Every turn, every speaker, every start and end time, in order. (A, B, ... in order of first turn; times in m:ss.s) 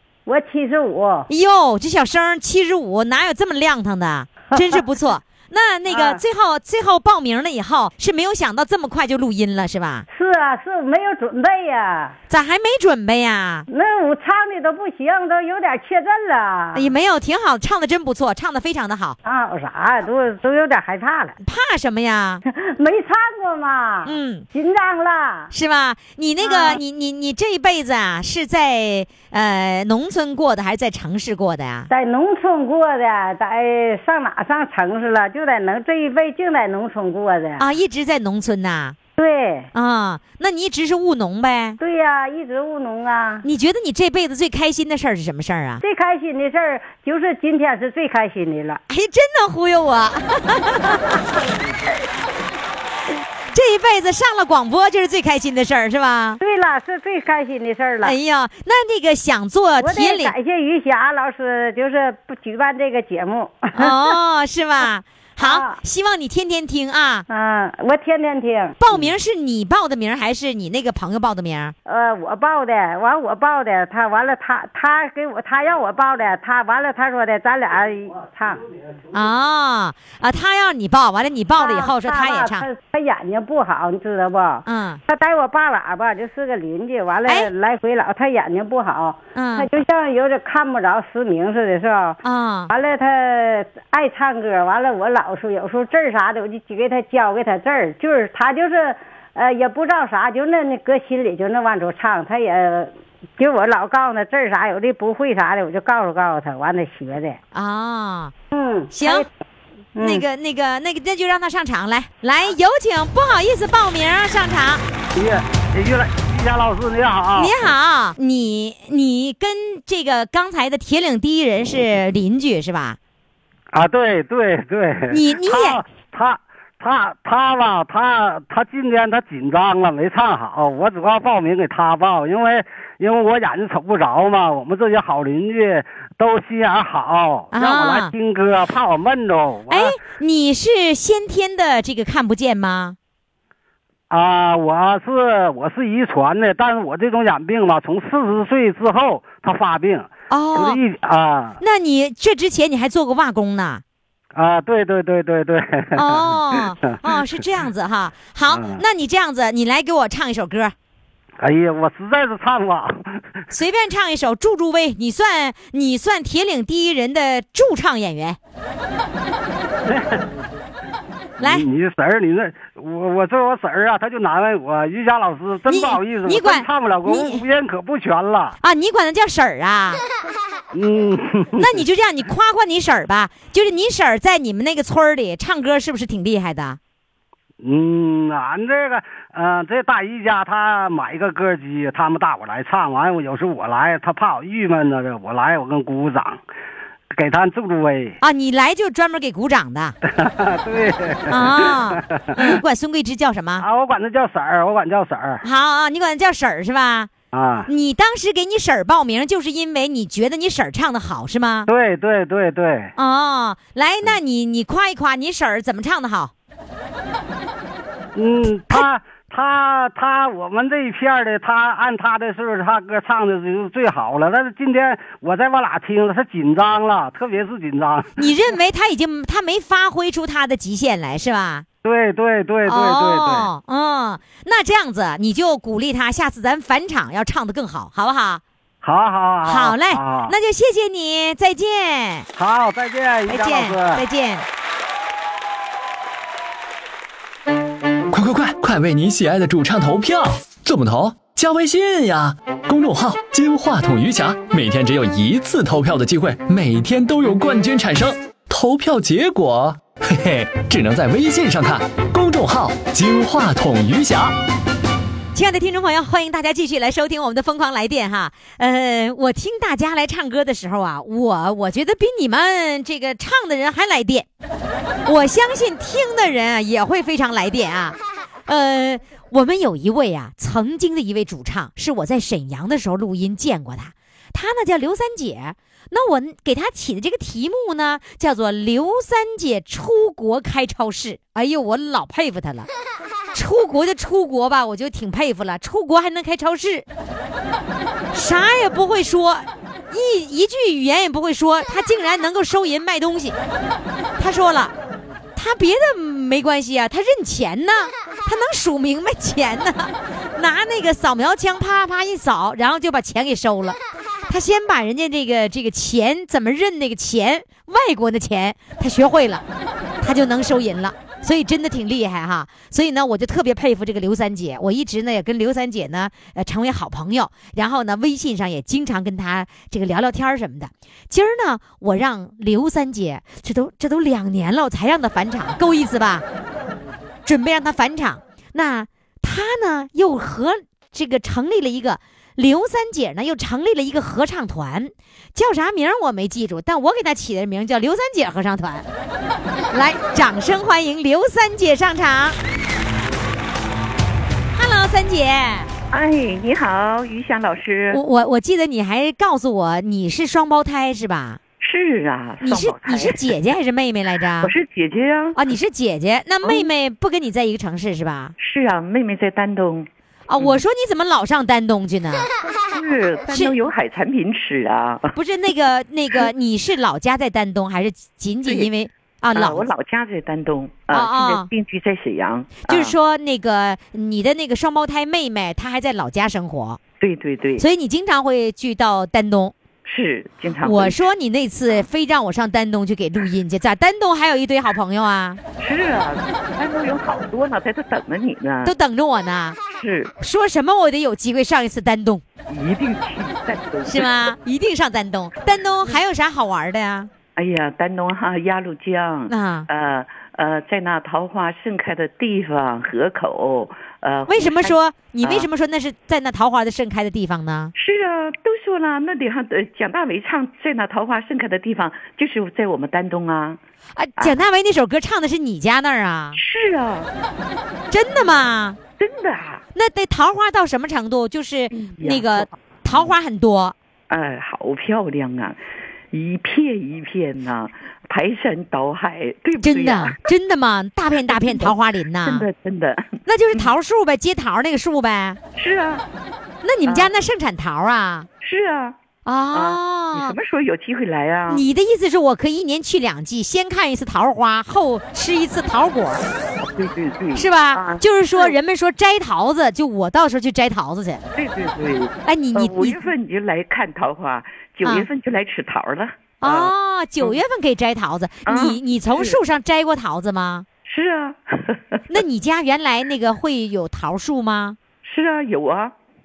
0:00.2-0:01.3 A
0:01.3-0:10.0 B
0:04.5-0:04.8 A
0:05.9-0:06.2 A
0:10.1-0:12.1 A
0:12.3-0:13.7 B
0:13.7-0:16.9 A
0:16.7-0:19.2 B
0:19.2-0:21.4 A
0:21.4-0:22.4 B
0:22.5-0:25.5 A
0:24.0-0:24.4 B
0:25.5-0:31.9 B
0:26.4-0:26.8 A
0:31.9-0:37.6 A
0:37.6-0:39.0 B
0:39.2-0:39.7 A
0:39.7-0:41.8 B
0:41.8-0:43.4 A
0:43.4-0:45.8 B
0:45.8-0:48.8 A
0:48.9-0:51.2 B
0:53.5-0:56.4 B
0:56.4-0:58.2 A
0:58.0-1:00.3 B
0:59.8-1:04.1 A
1:03.7-1:07.3 B
1:05.4-1:05.8 A
1:07.3-1:08.7 A
1:08.8-1:11.7 B
1:11.8-1:18.6 A
1:19.1-1:22.7 B
1:21.6-1:32.2 A
1:24.6-1:25.0 B
1:27.2-1:27.5 B
1:29.3-1:29.7 B
1:32.2-1:32.7 B
1:32.7-1:47.4 A
1:47.5-1:48.3 B
1:48.5-1:49.3 A
1:48.9-1:49.2 B
1:50.0-1:50.2 A
1:50.0-1:54.8 B
1:55.1-1:57.5 C
1:57.3-2:03.0 B
2:03.7-2:19.9 C
2:05.1-2:05.8 B
2:17.5-2:18.1 B
2:19.7-2:23.0 B
2:24.1-2:31.6 C
2:30.3-2:30.8 B
2:31.6-2:33.8 B
2:34.3-2:37.2 C
2:35.9-2:40.7 B
2:38.5-2:38.8 C
2:41.4-2:43.0 C
2:43.5-2:48.4 B
2:49.9-2:50.2 C
2:51.4-2:51.6 B
2:51.4-2:58.5 C
2:55.7-2:57.4 B
2:58.6-3:00.0 B
3:00.7-3:01.6 C
3:01.6-3:06.8 B
3:07.6-3:16.4 C
3:17.1-3:18.2 C
3:18.2-3:20.0 B
3:20.1-3:22.6 C
3:21.3-3:23.6 B
3:23.6-3:25.4 C
3:25.4-3:27.1 B
3:27.3-3:27.7 C
3:27.7-3:31.7 B
3:31.7-3:32.9 C
3:33.0-3:36.3 B
3:38.1-3:48.1 C
3:48.2-3:51.6 B
3:51.8-3:53.5 C
3:52.6-3:58.4 B
3:58.8-4:00.3 C
3:59.4-4:02.3 B
4:02.4-4:04.0 C
4:03.3-4:04.4 B
4:08.1-4:24.3 D
4:25.3-4:34.3 B
4:35.0-4:52.7 B
4:53.3-4:56.8 B
4:58.1-5:03.4 B
5:04.2-5:04.7 B
5:05.4-5:19.4 B
5:20.0-5:36.2 B
5:37.2-5:48.8 B
5:49.7-5:52.4 B
5:54.5-5:55.7 B
5:55.9-5:58.0 E
5:57.9-6:01.4 B
6:01.6-6:03.4 E
6:02.4-6:04.5 B
6:04.4-6:05.4 E
6:05.3-6:08.3 B
6:06.4-6:06.7 E
6:08.4-6:10.6 E
6:10.3-6:12.3 B
6:12.7-6:15.2 E
6:13.3-6:13.5 B
6:15.1-6:19.7 B
6:18.4-6:18.7 E
6:19.3-6:22.9 E
6:20.9-6:21.5 B
6:22.6-6:26.8 B
6:27.0-6:27.6 E
6:27.6-6:29.5 B
6:29.8-6:31.0 E
6:30.6-6:35.4 B
6:35.6-6:38.7 E
6:38.6-6:39.6 B
6:39.7-6:40.1 E
6:40.2-6:42.2 B
6:42.5-6:44.3 E
6:43.8-6:47.1 B
6:47.3-6:55.5 E
6:49.3-6:49.7 B
6:54.3-6:57.7 B
6:57.8-7:03.6 E
7:03.9-7:06.4 B
7:06.3-7:07.1 E
7:07.9-7:08.8 B
7:09.0-7:09.6 E
7:09.7-7:13.7 B
7:11.7-7:13.1 E
7:14.1-7:15.6 E
7:16.1-7:20.2 E
7:19.6-7:22.4 B
7:21.2-7:23.7 E
7:23.2-7:25.4 B
7:25.6-7:26.0 E
7:26.6-7:28.3 B
7:26.8-7:27.2 E
7:28.4-7:29.0 E
7:29.2-7:30.4 B
7:29.5-7:31.6 E
7:31.5-7:36.2 B
7:36.6-7:38.5 E
7:37.4-7:41.2 B
7:41.3-7:47.4 E
7:42.2-7:43.1 B
7:46.4-7:50.7 B
7:48.4-7:49.4 E
7:50.8-7:52.2 E
7:52.1-7:54.8 B
7:55.0-7:55.9 E